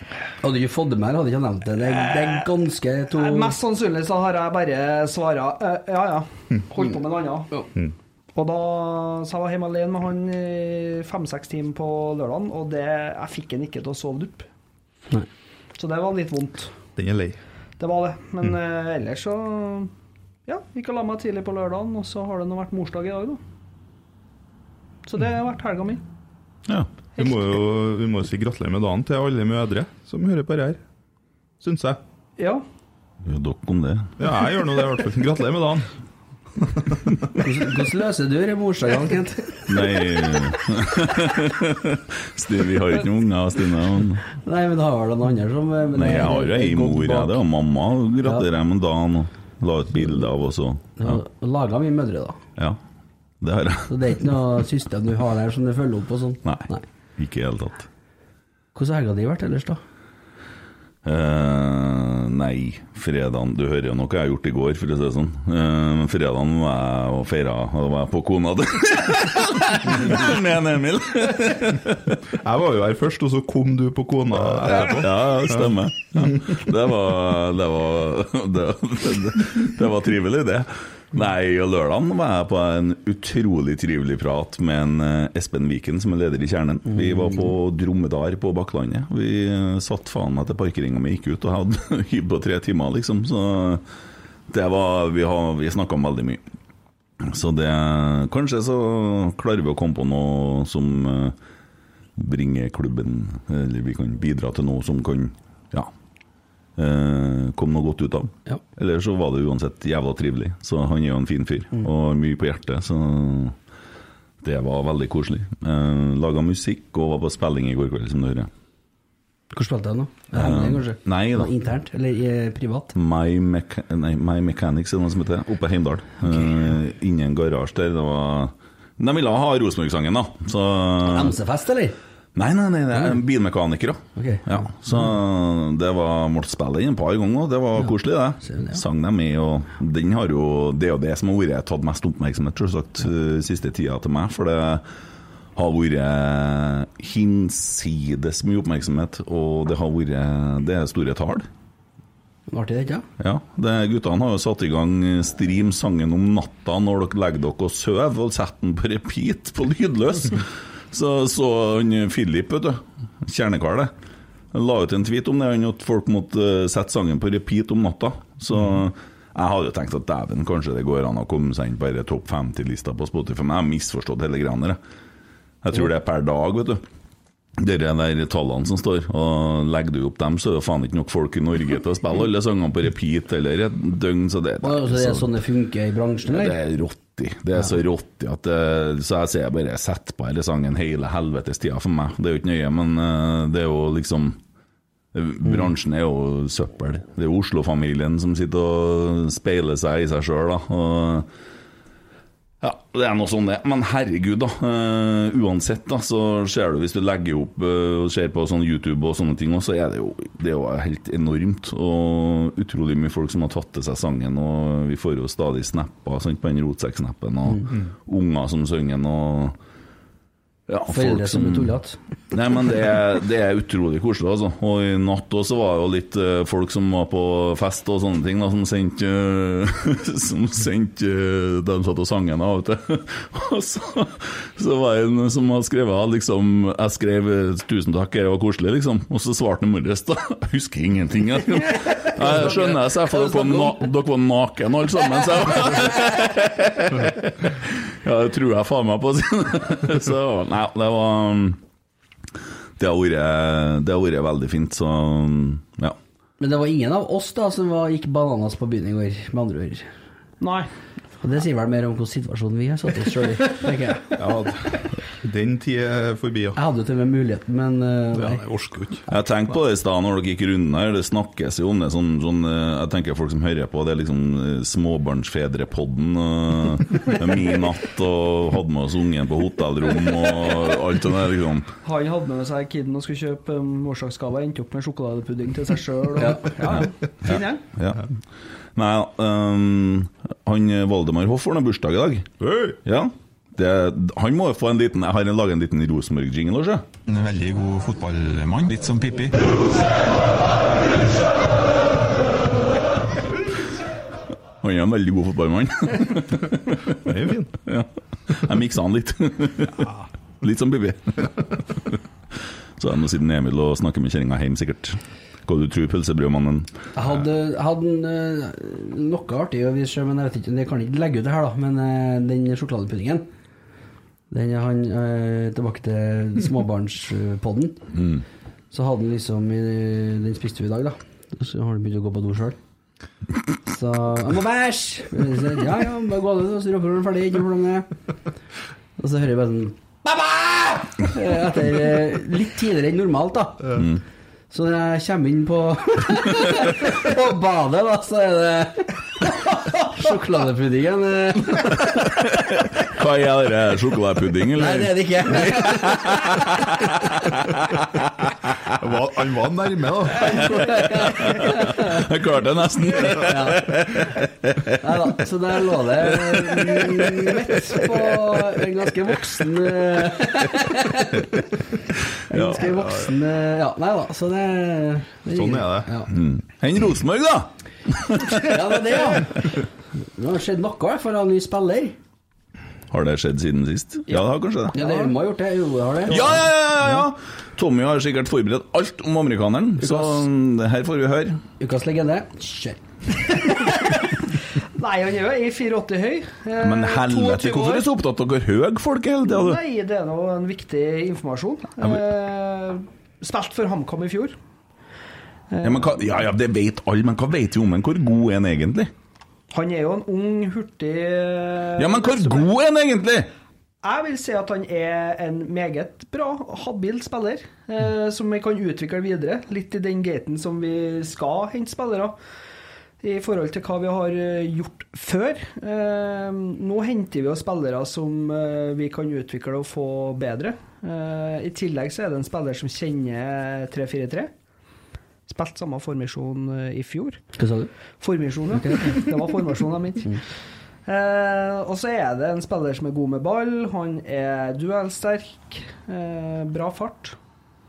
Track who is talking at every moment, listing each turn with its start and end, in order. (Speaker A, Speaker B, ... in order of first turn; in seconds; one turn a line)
Speaker A: 0.4-3.5
Speaker B: 3.1-7.6
Speaker B: 8.3-14.5
Speaker B: 15.8-16.7
Speaker C: 16.9-17.4
Speaker B: 17.8-19.9
Speaker B: 20.4-23.4
Speaker B: 25.1-26.0
Speaker C: 27.2-30.8
Speaker C: 31.6-32.0
Speaker B: 32.4-32.6
Speaker D: 33.2-34.1
Speaker C: 34.2-35.9
Speaker C: 36.6-37.0
Speaker A: 37.4-39.5
Speaker D: 39.7-44.2
Speaker A: 44.4-47.4
Speaker D: 45.9-51.2
Speaker A: 51.0-52.4
Speaker D: 53.4-53.9
Speaker A: 53.9-56.8
Speaker D: 56.4-57.9
Speaker A: 58.7-59.8
Speaker D: 61.0-72.2
Speaker C: 72.4-75.7
Speaker D: 74.6-93.8
Speaker A: 86.9-87.5
Speaker D: 94.5-96.4
Speaker D: 97.2-101.4
Speaker D: 102.2-105.9
Speaker D: 106.8-113.5
Speaker D: 114.4-118.5
Speaker A: 119.5-122.9
Speaker D: 120.3-121.5
Speaker D: 122.9-131.3
Speaker A: 131.0-131.9
Speaker D: 132.3-144.8
Speaker A: 134.2-134.7
Speaker A: 138.5-138.8
Speaker D: 145.6-151.5
Speaker A: 152.5-153.1
Speaker D: 153.2-163.9
Speaker D: 164.5-174.8
Speaker D: 175.6-176.8
Speaker D: 177.6-185.3
Speaker A: 184.6-186.6
Speaker D: 186.3-194.4
Speaker D: 195.1-201.3
Speaker D: 202.6-219.6
Speaker D: 220.7-221.7
Speaker A: 220.9-222.0
Speaker D: 222.3-251.6
Speaker A: 242.2-243.8
Speaker D: 252.8-256.0
Speaker A: 256.4-259.9
Speaker B: 260.4-260.7
Speaker A: 261.2-264.1
Speaker C: 264.1-266.6
Speaker A: 266.6-268.4
Speaker C: 268.1-269.1
Speaker D: 269.1-281.7
Speaker B: 281.8-287.6
Speaker A: 286.2-286.5
Speaker D: 287.3-288.0
Speaker D: 288.8-292.3
Speaker C: 292.4-292.8
Speaker D: 292.8-296.9
Speaker E: 297.1-299.5
Speaker D: 304.6-306.9
Speaker C: 307.0-307.5
Speaker D: 307.6-309.9
Speaker D: 310.4-312.0
Speaker D: 312.8-316.7
Speaker A: 316.9-323.3
Speaker A: 324.3-327.9
Speaker D: 327.9-328.2
Speaker A: 328.7-332.6
Speaker A: 333.6-337.9
Speaker A: 339.0-343.8
Speaker D: 343.7-344.0
Speaker A: 344.5-351.8
Speaker D: 352.1-357.8
Speaker A: 354.6-356.6
Speaker C: 358.7-360.9
Speaker A: 360.4-361.8
Speaker D: 361.1-365.1
Speaker A: 363.2-363.8
Speaker A: 364.8-371.4
Speaker D: 366.0-367.3
Speaker A: 372.3-376.1
Speaker D: 372.3-372.6
Speaker C: 375.3-375.9
Speaker D: 376.1-378.5
Speaker A: 378.4-379.6
Speaker A: 380.2-382.0
Speaker D: 382.9-384.8
Speaker B: 384.1-385.1
Speaker A: 384.7-386.3
Speaker D: 386.1-391.4
Speaker A: 389.8-390.1
Speaker A: 391.6-392.8
Speaker B: 393.5-394.1
Speaker B: 394.7-397.9
Speaker D: 396.6-399.6
Speaker B: 399.2-404.4
Speaker B: 405.5-406.0
Speaker D: 405.6-408.9
Speaker B: 409.5-412.5
Speaker D: 411.8-413.3
Speaker B: 413.8-422.2
Speaker B: 423.0-434.3
Speaker B: 435.3-437.2
Speaker A: 437.4-437.7
Speaker B: 438.0-440.2
Speaker A: 438.5-439.0
Speaker B: 440.9-447.2